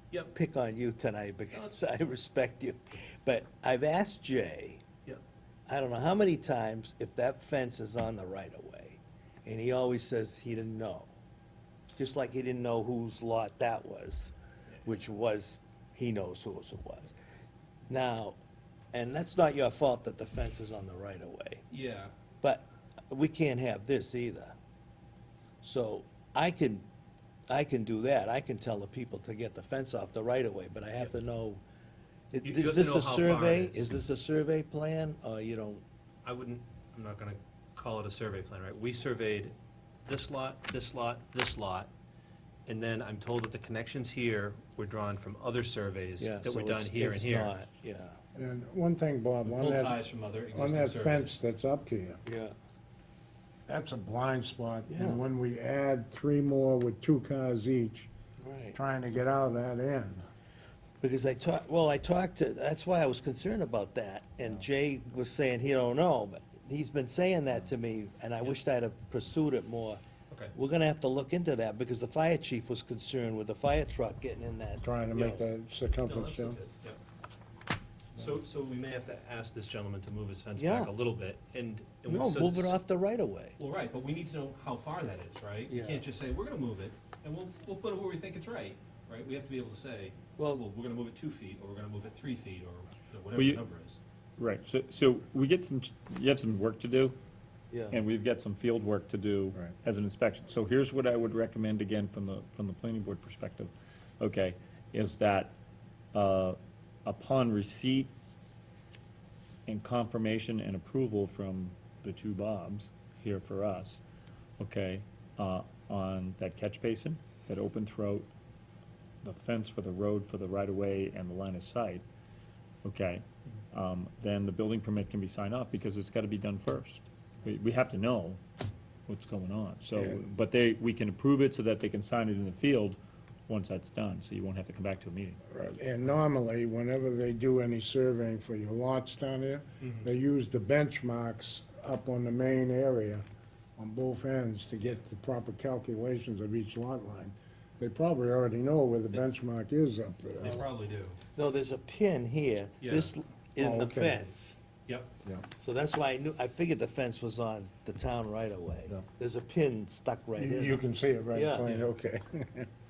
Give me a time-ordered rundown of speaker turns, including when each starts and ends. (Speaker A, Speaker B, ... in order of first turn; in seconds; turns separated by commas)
Speaker A: 0.3-4.8, Speaker B: 1.5-1.8, Speaker A: 5.7-11.1, Speaker A: 12.0-14.3, Speaker A: 14.8-17.1, Speaker A: 17.9-18.4, Speaker A: 18.9-21.7, Speaker B: 21.7-22.1, Speaker A: 22.4-24.6, Speaker A: 25.6-26.9, Speaker A: 27.5-31.6, Speaker A: 32.3-35.8, Speaker B: 32.4-33.9, Speaker B: 36.2-39.5, Speaker B: 40.1-41.9, Speaker B: 42.7-47.5, Speaker A: 46.2-48.2, Speaker C: 48.3-50.0, Speaker B: 49.5-51.4, Speaker C: 50.5-52.2, Speaker A: 52.3-52.5, Speaker C: 53.7-58.1, Speaker A: 54.9-55.2, Speaker A: 58.4-58.8, Speaker C: 58.8-60.2, Speaker A: 61.0-70.0, Speaker A: 70.5-75.4, Speaker C: 74.8-76.6, Speaker B: 76.1-77.0, Speaker B: 78.2-82.8, Speaker A: 80.6-80.9, Speaker A: 82.1-83.6, Speaker B: 83.6-94.0, Speaker A: 85.7-86.1, Speaker A: 90.4-90.6, Speaker D: 93.3-93.6, Speaker D: 94.4-97.2, Speaker A: 97.7-98.0, Speaker D: 97.9-105.5, Speaker D: 106.1-108.1, Speaker D: 109.7-114.0, Speaker D: 114.6-118.3, Speaker D: 119.2-122.0, Speaker D: 122.8-128.4, Speaker D: 129.1-135.4, Speaker C: 129.9-130.2, Speaker C: 135.5-143.2, Speaker B: 139.8-140.1, Speaker C: 143.8-150.6, Speaker B: 150.4-151.2, Speaker A: 151.3-154.6, Speaker B: 152.8-153.1, Speaker C: 153.6-154.2, Speaker A: 155.6-160.8, Speaker C: 160.4-162.7, Speaker A: 161.3-161.7